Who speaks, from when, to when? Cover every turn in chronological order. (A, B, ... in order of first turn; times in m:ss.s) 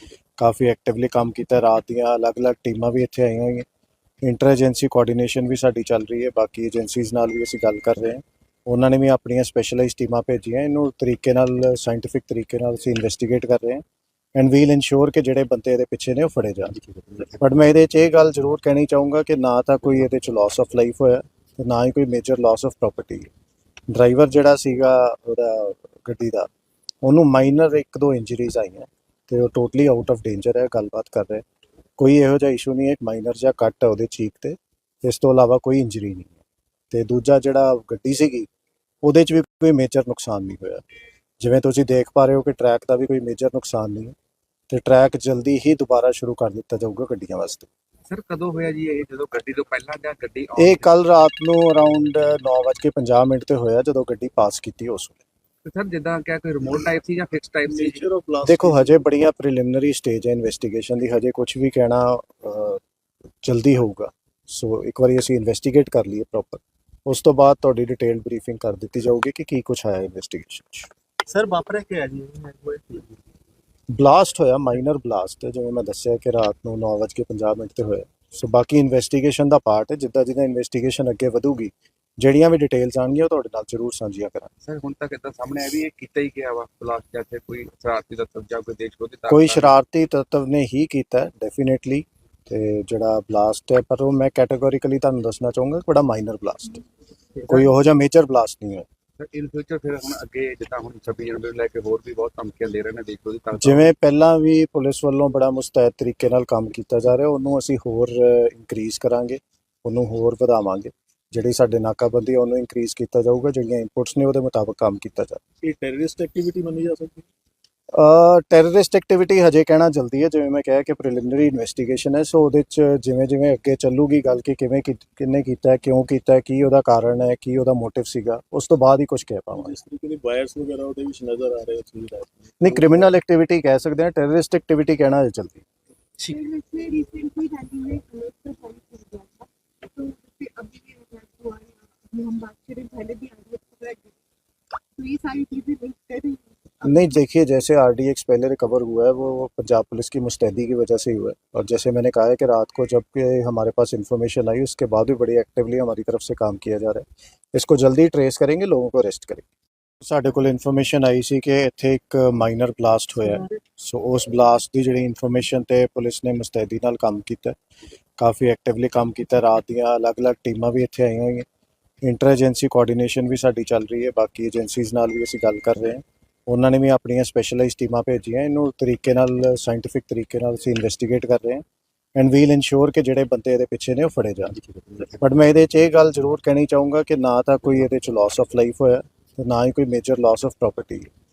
0:00.4-0:03.6 A
0:04.2-0:13.8 A
0:14.4-0:16.8 A
0:17.4-0:23.3 A
0:23.9-0:26.5 A
0:27.0-0:31.4 A
0:32.0-0:36.4 A
0:36.9-0:38.5 A
0:39.0-0:40.8 A
0:41.4-0:44.2 A
0:44.7-0:47.7 A
0:48.1-0:50.9 B
0:50.6-0:55.2 A
0:55.6-0:58.0 B
0:57.7-0:59.0 C
0:58.4-1:02.8 A
1:03.4-1:10.9 A
1:11.3-1:13.1 C
1:13.9-1:24.5 A
1:24.6-1:29.8 B
1:29.3-1:36.8 A
1:37.4-1:37.7 B
1:37.5-1:38.9 A
1:39.2-1:43.9 B
1:43.6-1:55.4 A
1:55.6-1:57.2 C
1:57.9-2:09.8 A
2:09.6-2:13.1 C
2:12.6-2:15.6 A
2:16.2-2:24.2 D
2:25.0-2:27.1 D
2:26.8-2:39.5 A
2:40.0-2:47.6 A
2:48.2-2:51.4 A
2:52.0-3:01.6 A
3:02.2-3:04.6 A
3:05.2-3:11.1 A